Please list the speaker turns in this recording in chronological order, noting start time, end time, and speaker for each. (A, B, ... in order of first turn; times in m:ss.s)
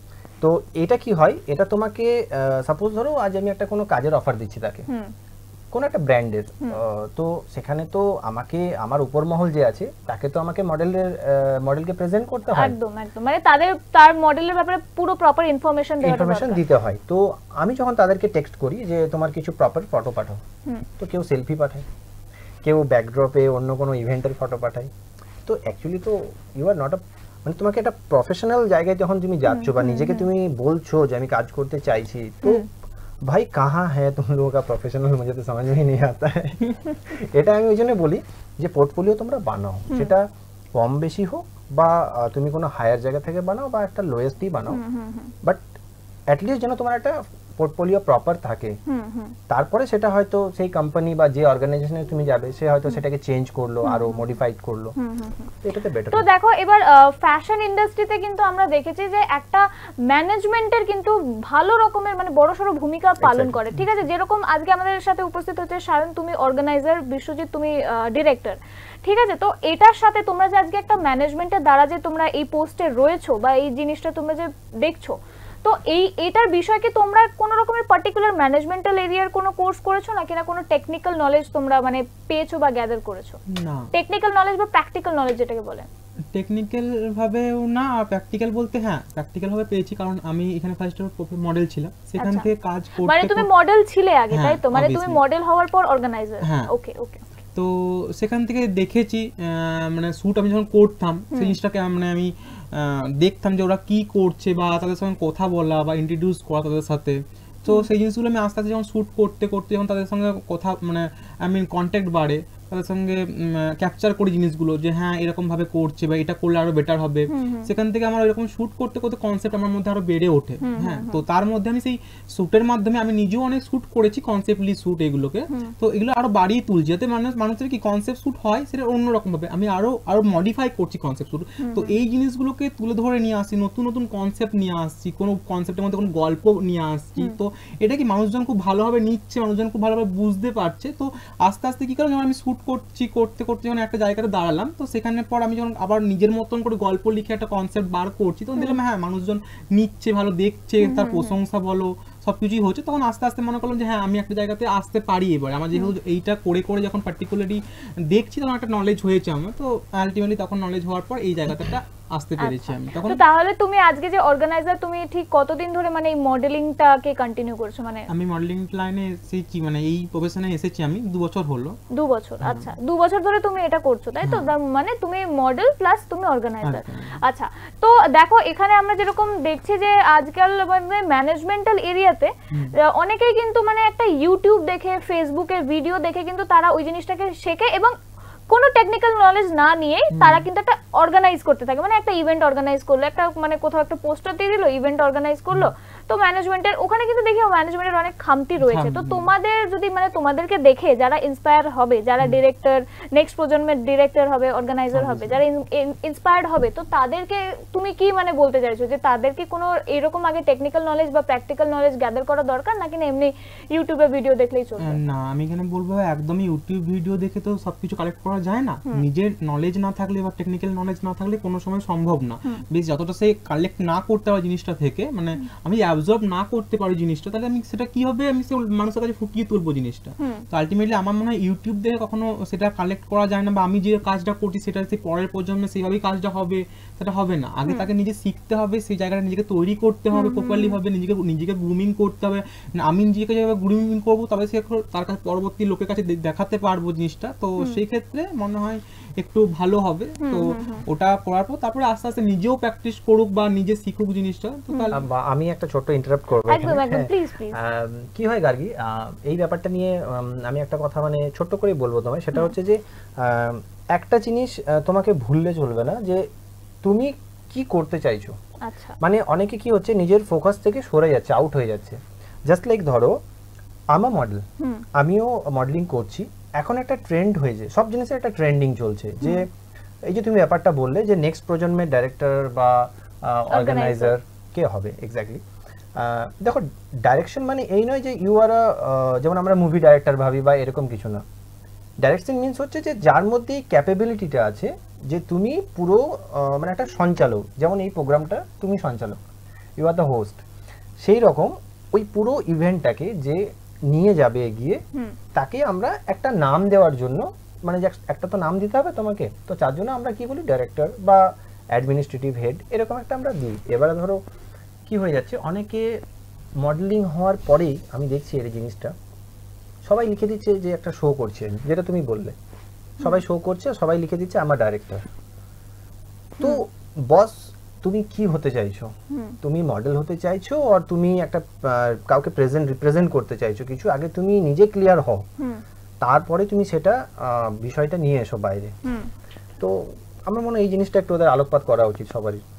0:00.4-0:04.9 A
0:05.7-0:12.8 A
0:12.5-0:16.6 B
0:16.0-0:20.4 A
0:21.0-0:21.9 A
0:22.6-0:24.9 A
0:25.5-0:32.6 A
0:29.5-0:30.3 B
0:33.3-0:44.8 A
0:44.7-0:45.3 B
0:46.3-0:48.8 A
0:48.9-0:49.4 B
0:49.5-0:55.0 A
0:53.8-0:54.3 B
0:55.0-0:55.5 B
0:55.6-0:56.3 A
0:56.1-1:23.4 B
1:03.2-1:03.7 A
1:23.5-1:23.9 C
1:23.9-1:25.9 B
1:26.3-1:33.5 C
1:32.2-1:32.5 B
1:33.0-1:37.3 B
1:34.3-1:35.2 C
1:36.4-1:36.7 C
1:37.6-2:43.2 C
1:41.3-1:41.6 B
1:57.3-1:57.7 B
2:00.6-2:01.2 B
2:11.6-2:11.9 B
2:30.8-2:31.4 B
2:42.4-2:48.1 B
2:48.1-2:51.8 C
2:51.9-3:08.0 B
2:52.4-2:52.7 C
2:54.2-2:54.5 C
2:56.6-2:57.2 C
3:08.5-3:35.0 B
3:10.1-3:10.4 C
3:18.6-3:19.3 C
3:25.0-3:25.4 C
3:34.8-4:15.0 C
3:50.2-3:50.4 B
4:00.1-4:00.8 B
4:10.2-4:10.8 B
4:14.7-4:15.0 B
4:14.9-4:26.3 A
4:16.5-4:17.6 B
4:26.8-4:28.4 A
4:28.6-4:29.0 B
4:29.0-4:33.2 A
4:33.9-4:39.5 A
4:34.6-4:34.8 B
4:40.1-4:45.4 A
4:43.5-4:44.1 B
4:46.0-4:51.2 A
4:52.0-4:59.2 A
4:59.8-5:00.4 A
5:01.0-5:04.8 A
5:05.3-5:14.2 A
5:14.9-5:16.0 A
5:16.6-5:19.0 A
5:19.8-5:22.4 A
5:23.0-5:25.1 A
5:26.4-5:35.3 A
5:29.1-5:29.4 B
5:36.0-5:38.7 A
5:38.8-5:39.1 B
5:39.6-5:42.4 A